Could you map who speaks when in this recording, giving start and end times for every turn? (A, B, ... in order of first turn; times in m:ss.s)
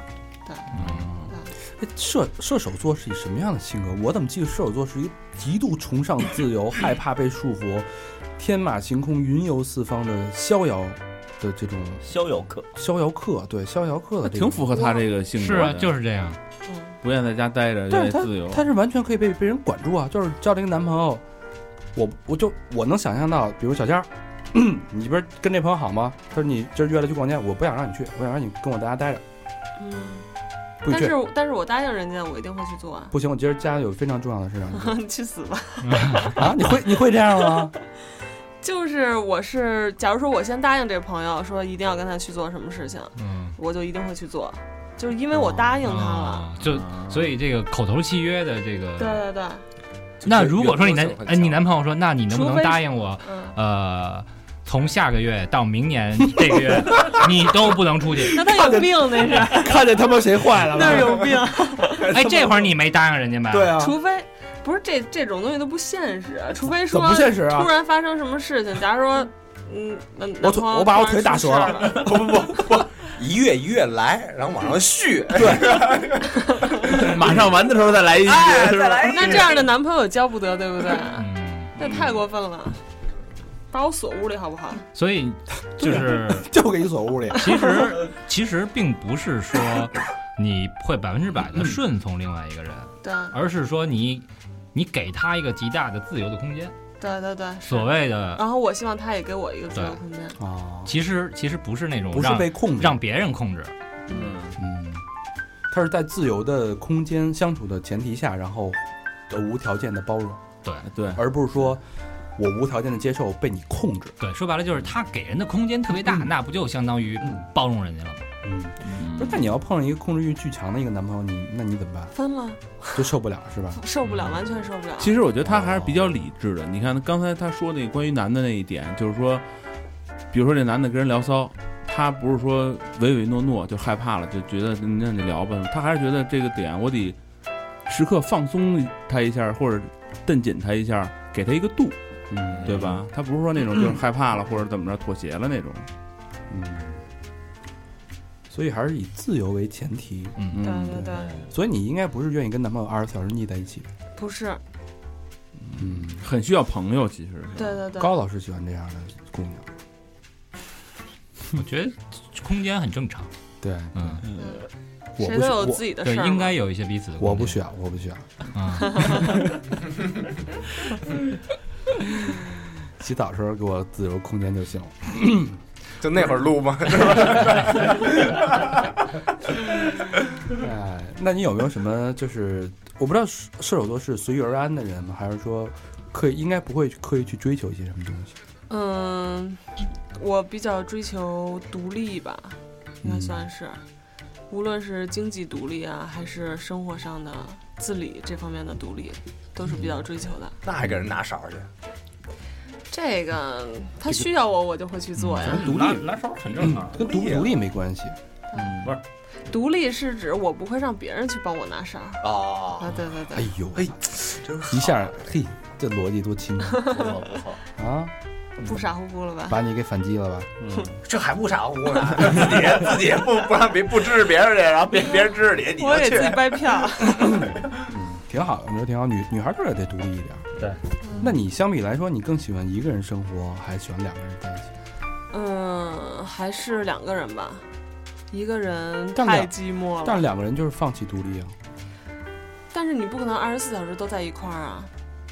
0:00.4-0:00.7 A
0:00.7-0:01.1 B
0:00.8-0:01.4 C
0:01.7-0:12.1 D
0:12.0-0:12.7 E
0:12.8-0:14.8 D
0:14.2-0:16.0 C
0:15.4-0:16.4 B
0:17.0-0:18.7 C
0:17.9-0:21.2 D
0:21.9-0:29.2 D
0:29.8-0:30.3 A
0:30.8-0:31.2 D
0:30.9-0:33.2 A
0:33.1-0:35.0 D
0:34.7-0:36.4 A
0:35.8-0:36.4 B
0:36.2-0:37.7 D
0:38.6-0:46.5 A
0:43.2-0:43.6 B
0:45.8-0:49.2 B
0:46.6-0:47.4 C
0:49.0-0:49.6 A
0:50.2-0:51.7 F
0:50.2-0:58.4 B
0:52.3-0:53.6 A
0:56.6-0:57.2 D
0:58.3-0:59.8 A
0:58.4-1:01.4 D
1:00.6-1:02.1 A
1:02.1-1:02.7 D
1:02.1-1:03.8 B
1:03.5-1:03.9 D
1:03.8-1:12.1 A
1:06.7-1:07.7 D
1:10.4-1:12.1 D
1:11.9-1:17.5 F
1:15.4-1:15.8 C
1:16.9-1:19.4 C
1:18.2-1:19.7 F
1:19.1-1:22.8 A
1:21.2-1:21.8 B
1:23.7-1:24.8 A
1:24.9-1:26.5 B
1:25.8-1:27.8 D
1:27.3-1:36.7 B
1:33.0-1:33.4 A
1:37.0-1:40.4 A
1:37.7-1:38.4 B
1:40.4-1:41.0 D
1:40.9-1:43.7 B
1:42.1-1:43.0 D
1:44.1-1:44.4 A
1:44.1-1:44.6 C
1:44.6-1:45.0 D
1:45.7-1:50.4 D
1:50.9-1:51.2 C
1:51.1-1:51.8 D
1:52.4-1:54.2 D
1:54.2-1:58.3 B
1:58.4-2:02.1 D
1:58.8-1:59.5 C
2:02.1-2:03.1 A
2:03.0-2:03.8 D
2:03.7-2:05.2 A
2:05.0-2:09.4 C
2:05.4-2:06.0 D
2:10.3-2:17.2 C
2:17.9-2:22.0 C
2:22.3-2:23.0 D
2:22.6-2:25.9 C
2:26.5-2:27.0 D
2:28.5-2:33.9 D
2:30.6-2:31.4 A
2:34.2-2:34.6 A
2:35.7-2:36.2 D
2:36.1-2:37.8 C
2:37.6-2:38.2 A
2:37.9-2:39.7 D
2:41.5-2:43.3 B
2:43.6-2:44.2 D
2:44.0-2:44.2 B
2:44.2-2:44.6 C
2:44.4-2:44.6 A
2:45.2-2:45.8 D
2:45.2-2:46.6 A
2:46.0-2:47.6 B
2:47.2-2:48.3 D
2:48.5-2:49.4 B
2:48.9-2:49.3 A
2:52.9-2:55.6 D
2:56.0-2:58.8 F
3:00.5-3:08.4 D
3:08.7-3:13.8 A
3:13.0-3:13.4 D
3:14.5-3:20.6 A
3:20.6-3:21.7 F
3:22.9-3:25.7 A
3:25.4-3:26.1 D
3:25.4-3:27.0 E
3:26.6-3:28.2 D
3:27.0-3:27.6 F
3:28.6-3:28.9 C
3:29.5-3:32.2 A
3:32.2-3:33.0 F
3:32.8-3:33.5 A
3:33.3-3:34.0 D
3:33.8-3:35.2 F
3:34.7-3:37.0 D
3:36.9-3:37.6 F
3:37.8-3:38.1 D
3:38.6-3:39.6 A
3:39.5-3:40.5 D
3:40.6-3:41.0 E
3:41.0-3:46.8 F
3:45.8-3:47.4 A
3:47.2-3:50.5 D
3:51.0-3:51.3 A
3:51.2-3:54.7 D
3:55.3-3:57.7 A
3:58.3-4:00.2 A
3:59.2-4:01.6 D
4:02.7-4:04.9 A